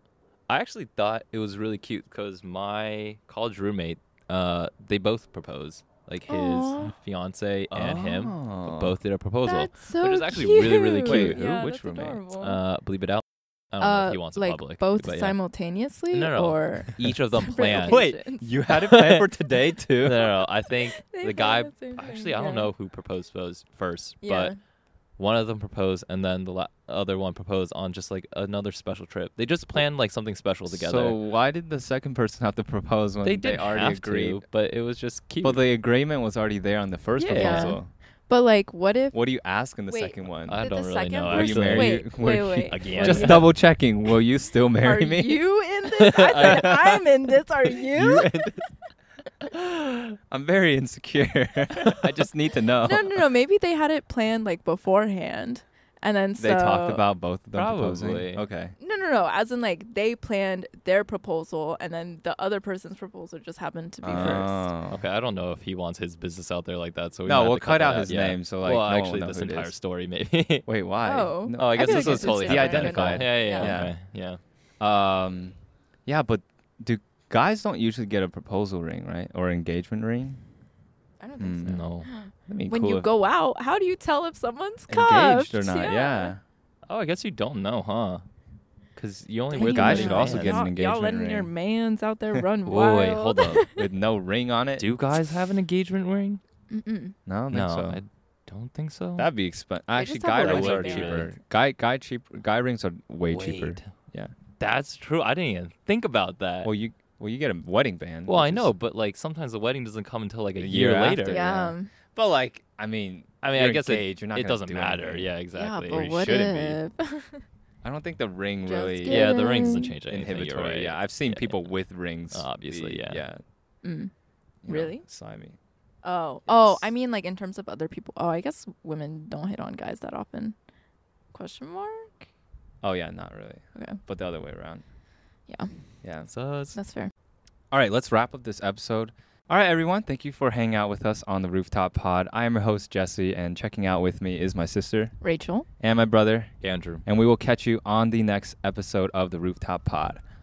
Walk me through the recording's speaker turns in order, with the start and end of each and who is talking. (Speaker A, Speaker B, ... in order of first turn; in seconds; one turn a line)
Speaker A: 0.5-11.4
Speaker B: 6.3-6.9
Speaker C: 7.7-8.9
Speaker B: 9.4-12.6
Speaker C: 11.0-12.2
Speaker A: 12.4-15.3
Speaker B: 13.8-18.5
Speaker A: 16.1-18.0
Speaker C: 17.7-20.4
Speaker A: 18.7-19.3
Speaker A: 20.0-24.5
Speaker B: 20.9-22.7
Speaker B: 24.2-24.6
Speaker A: 25.2-31.2
Speaker C: 30.7-34.4
Speaker A: 33.2-35.6
Speaker C: 35.4-37.9
Speaker B: 37.2-39.2
Speaker A: 37.2-37.8
Speaker C: 39.1-40.6
Speaker B: 39.9-43.5
Speaker A: 40.5-42.1
Speaker C: 41.2-45.4
Speaker A: 42.7-43.5
Speaker B: 44.8-48.6
Speaker A: 45.9-47.1
Speaker A: 47.6-48.6
Speaker A: 49.5-50.1
Speaker C: 50.3-53.2
Speaker B: 52.8-57.0
Speaker C: 56.4-58.7
Speaker A: 57.5-58.4
Speaker B: 58.8-64.7
Speaker C: 64.0-65.0
Speaker A: 64.2-70.7
Speaker C: 67.2-69.7
Speaker C: 70.7-74.0
Speaker B: 71.0-73.8
Speaker A: 71.5-74.4
Speaker C: 74.8-80.4
Speaker B: 81.2-86.3
Speaker C: 81.4-81.8
Speaker A: 81.6-82.1
Speaker C: 82.5-83.1
Speaker C: 84.9-86.4
Speaker A: 86.9-88.2
Speaker A: 89.0-90.6
Speaker B: 89.5-93.9
Speaker C: 89.5-91.5
Speaker A: 92.7-93.7
Speaker C: 93.7-94.9
Speaker A: 94.8-96.4
Speaker B: 96.7-97.2
Speaker C: 97.2-98.0
Speaker A: 97.5-99.3
Speaker C: 99.2-104.3
Speaker B: 99.9-101.3
Speaker A: 100.3-101.3
Speaker A: 103.3-103.9
Speaker A: 104.6-106.7
Speaker C: 106.6-108.7
Speaker A: 108.2-111.7
Speaker C: 110.6-115.3
Speaker B: 111.3-111.9
Speaker A: 113.4-116.8
Speaker B: 115.5-117.4
Speaker C: 117.8-123.4
Speaker B: 118.7-120.0
Speaker A: 119.0-121.6
Speaker A: 122.3-123.2
Speaker B: 123.8-124.1
Speaker C: 124.6-125.5
Speaker B: 124.7-125.0
Speaker B: 126.0-130.5
Speaker B: 131.3-132.3
Speaker C: 132.8-134.8
Speaker C: 136.0-136.3
Speaker A: 136.3-136.8
Speaker B: 136.7-137.1
Speaker C: 137.7-145.1
Speaker B: 145.2-145.7
Speaker C: 145.8-150.2
Speaker A: 146.6-147.0